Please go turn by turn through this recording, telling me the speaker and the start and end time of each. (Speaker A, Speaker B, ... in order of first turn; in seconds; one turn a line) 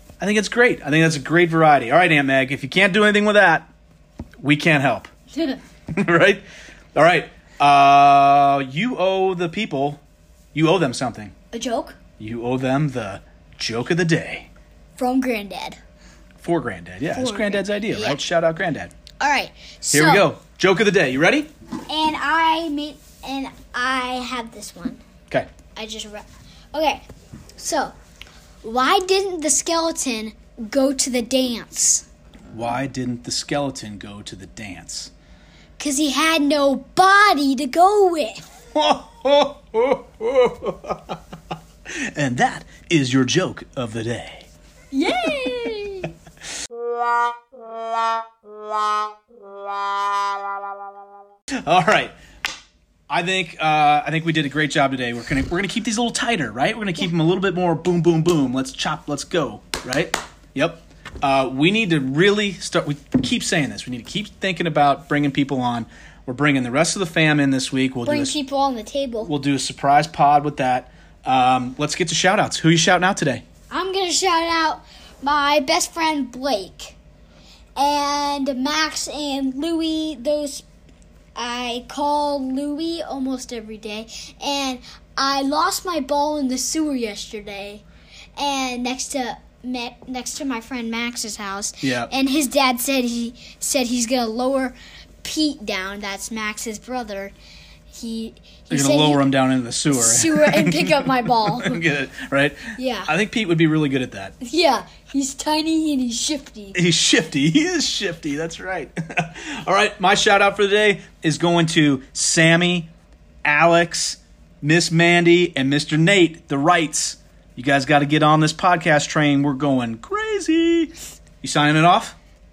Speaker A: 0.2-3.7
Speaker A: 4.4-5.1
Speaker B: 5.3-5.6
Speaker A: 5.9-6.4
Speaker A: 7.0-10.0
Speaker A: 10.5-11.3
Speaker B: 11.5-12.0
Speaker A: 12.2-14.5
Speaker B: 15.0-15.8
Speaker A: 16.4-18.9
Speaker B: 17.1-18.2
Speaker B: 19.2-20.3
Speaker A: 19.9-21.5
Speaker B: 21.9-25.0
Speaker B: 25.8-27.0
Speaker B: 27.6-27.9
Speaker B: 28.6-32.1
Speaker A: 32.5-35.1
Speaker B: 35.8-38.5
Speaker A: 38.8-41.2
Speaker A: 41.9-44.5
Speaker B: 44.9-46.1
Speaker A: 51.6-52.1
Speaker A: 53.1-68.3
Speaker B: 68.0-69.3
Speaker A: 69.2-73.5
Speaker B: 73.7-77.0
Speaker B: 77.8-80.7
Speaker B: 81.4-87.8
Speaker B: 88.4-97.3
Speaker A: 91.8-92.1
Speaker B: 97.9-99.4
Speaker A: 98.7-104.3
Speaker B: 99.9-101.8
Speaker B: 102.8-103.1
Speaker B: 104.4-106.8
Speaker A: 106.8-112.9
Speaker A: 113.5-122.2